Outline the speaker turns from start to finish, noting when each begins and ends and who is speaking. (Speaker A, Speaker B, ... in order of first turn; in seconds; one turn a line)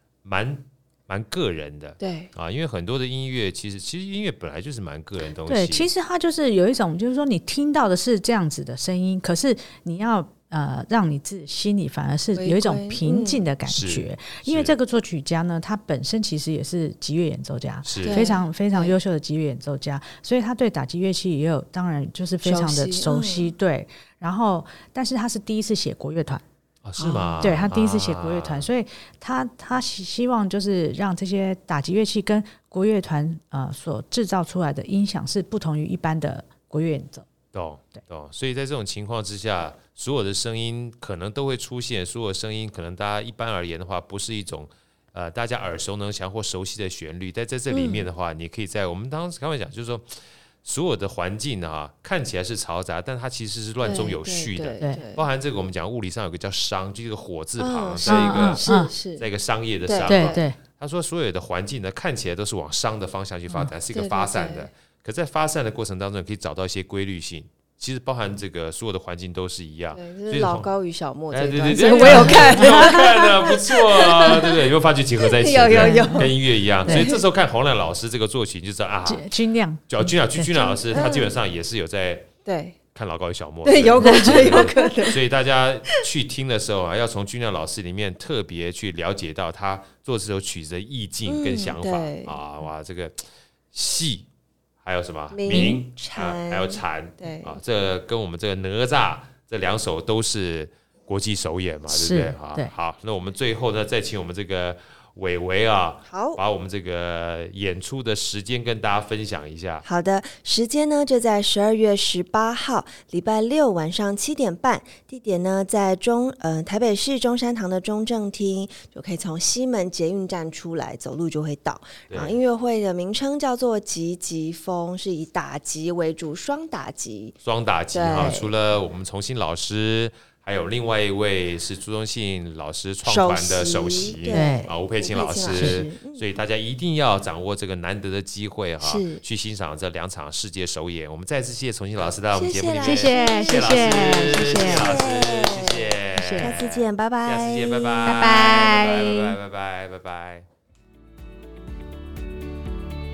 Speaker A: 0.2-5.9
Speaker B: 2.0-2.3
Speaker C: 5.5-26.4
Speaker B: 12.3-13.4
Speaker A: 13.7-14.8
Speaker A: 17.9-18.3
Speaker B: 18.0-19.0
Speaker B: 22.4-23.5
Speaker A: 26.8-28.7
Speaker B: 27.0-27.5
Speaker C: 27.4-37.3
Speaker A: 37.5-58.6
Speaker B: 47.7-48.1
Speaker B: 53.8-55.2
Speaker B: 57.6-59.2
Speaker C: 58.1-58.9
Speaker A: 59.2-70.7
Speaker B: 59.9-60.5
Speaker C: 60.1-60.6
Speaker B: 63.9-64.7
Speaker B: 70.0-74.6
Speaker A: 71.3-79.3
Speaker C: 71.7-73.0
Speaker B: 75.2-77.2
Speaker C: 75.8-76.3
Speaker C: 76.9-77.1
Speaker C: 79.1-80.8
Speaker A: 79.9-82.3
Speaker B: 80.9-81.4
Speaker B: 82.5-82.8
Speaker A: 82.9-93.2
Speaker B: 83.7-85.2
Speaker C: 84.0-84.9
Speaker B: 91.3-92.4
Speaker A: 93.7-94.3
Speaker A: 94.8-109.8
Speaker B: 95.3-97.6
Speaker C: 95.5-95.8
Speaker C: 101.9-102.7
Speaker B: 106.1-106.4
Speaker B: 109.8-127.3
Speaker A: 122.1-122.4
Speaker A: 127.4-150.5
Speaker B: 127.9-128.5
Speaker B: 133.1-136.2
Speaker C: 134.3-134.7
Speaker C: 135.5-135.8
Speaker B: 138.8-139.2
Speaker B: 142.3-148.1
Speaker C: 142.8-145.0
Speaker C: 146.1-146.6
Speaker C: 148.1-149.3